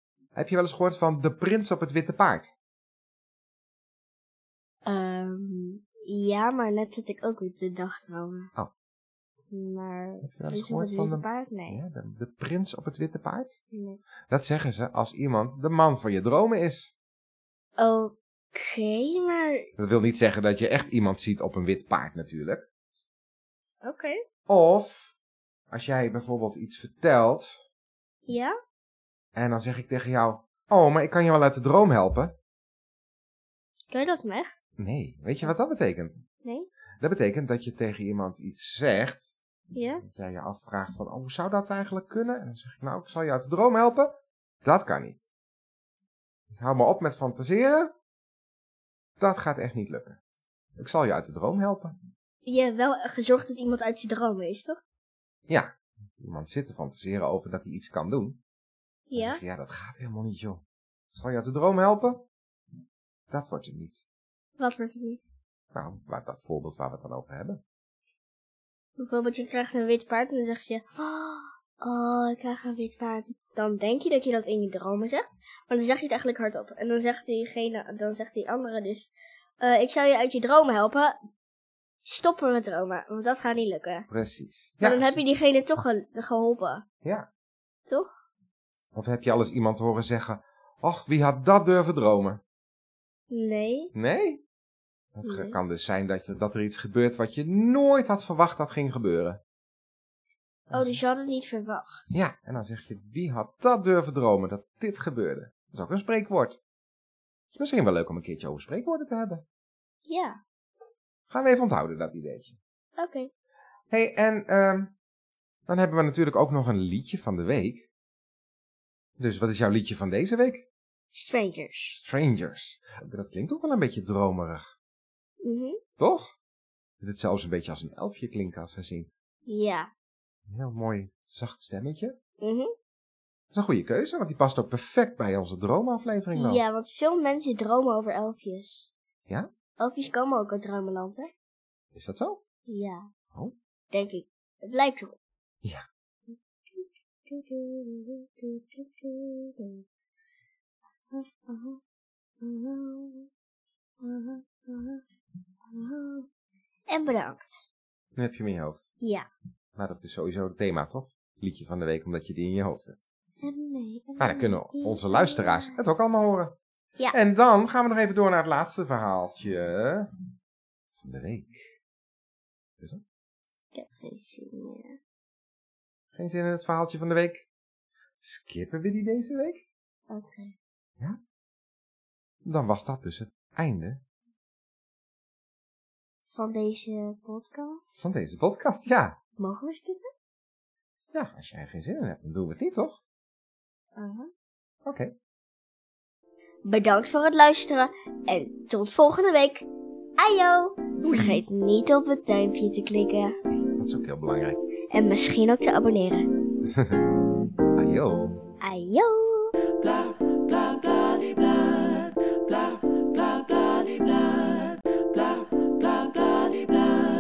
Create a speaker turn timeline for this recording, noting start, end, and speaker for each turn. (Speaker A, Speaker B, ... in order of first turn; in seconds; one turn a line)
Speaker A: 0.3-2.5
Speaker B: 4.8-8.5
Speaker B: 9.5-11.8
Speaker A: 10.2-13.6
Speaker B: 13.7-14.0
Speaker A: 14.3-16.9
Speaker B: 17.8-19.6
Speaker A: 19.8-22.6
Speaker B: 23.8-24.2
Speaker A: 24.5-25.1
Speaker A: 25.7-27.6
Speaker B: 28.2-28.5
Speaker A: 29.4-32.3
Speaker B: 33.9-34.6
Speaker A: 34.8-36.2
Speaker B: 36.4-36.7
Speaker A: 37.0-39.4
Speaker B: 39.7-40.0
Speaker A: 40.1-45.2
Speaker A: 46.5-47.9
Speaker A: 49.2-50.2
Speaker A: 50.8-52.0
Speaker B: 52.4-54.8
Speaker A: 55.5-58.4
Speaker B: 59.1-59.4
Speaker A: 59.1-62.2
Speaker A: 63.3-64.0
Speaker B: 64.6-65.2
Speaker A: 65.7-67.6
Speaker B: 69.0-81.1
Speaker B: 82.0-84.1
Speaker A: 84.1-85.2
Speaker B: 84.8-86.8
Speaker B: 87.9-88.2
Speaker A: 88.9-92.4
Speaker B: 93.3-93.9
Speaker A: 93.9-94.4
Speaker A: 95.1-99.4
Speaker B: 95.2-95.6
Speaker B: 100.7-102.2
Speaker A: 100.7-101.0
Speaker A: 102.1-106.6
Speaker A: 107.5-109.4
Speaker B: 110.1-110.4
Speaker A: 111.3-112.6
Speaker B: 113.0-113.3
Speaker A: 113.9-114.9
Speaker A: 115.7-117.9
Speaker A: 119.2-120.6
Speaker B: 121.1-122.0
Speaker A: 121.9-124.7
Speaker B: 125.4-125.8
Speaker A: 126.0-126.3
Speaker A: 127.0-129.1
Speaker B: 129.4-129.9
Speaker A: 130.5-132.1
Speaker B: 132.4-132.7
Speaker A: 133.5-136.6
Speaker B: 136.3-138.9
Speaker B: 139.8-141.3
Speaker A: 141.9-142.4
Speaker B: 142.7-143.1
Speaker B: 143.9-145.2
Speaker B: 146.3-149.8
Speaker B: 151.1-151.8
Speaker B: 152.4-153.3
Speaker B: 154.0-155.0
Speaker B: 155.7-156.2
Speaker B: 156.9-157.7
Speaker A: 158.1-158.9
Speaker B: 159.0-159.3
Speaker A: 159.8-163.0
Speaker B: 163.4-165.8
Speaker A: 164.2-166.6
Speaker A: 167.1-170.1
Speaker A: 171.0-171.7
Speaker B: 173.7-175.0
Speaker A: 176.2-177.4
Speaker A: 178.2-179.6
Speaker B: 180.1-180.6
Speaker A: 182.4-184.0
Speaker B: 186.3-188.0
Speaker A: 188.0-189.2
Speaker B: 189.4-190.1
Speaker A: 191.1-193.0
Speaker B: 193.9-194.3
Speaker A: 194.8-195.1
Speaker B: 196.7-199.7
Speaker B: 200.2-203.3
Speaker A: 201.0-201.4
Speaker A: 203.5-204.6
Speaker B: 204.9-206.2
Speaker A: 206.6-207.0
Speaker A: 207.8-208.4
Speaker B: 208.6-209.5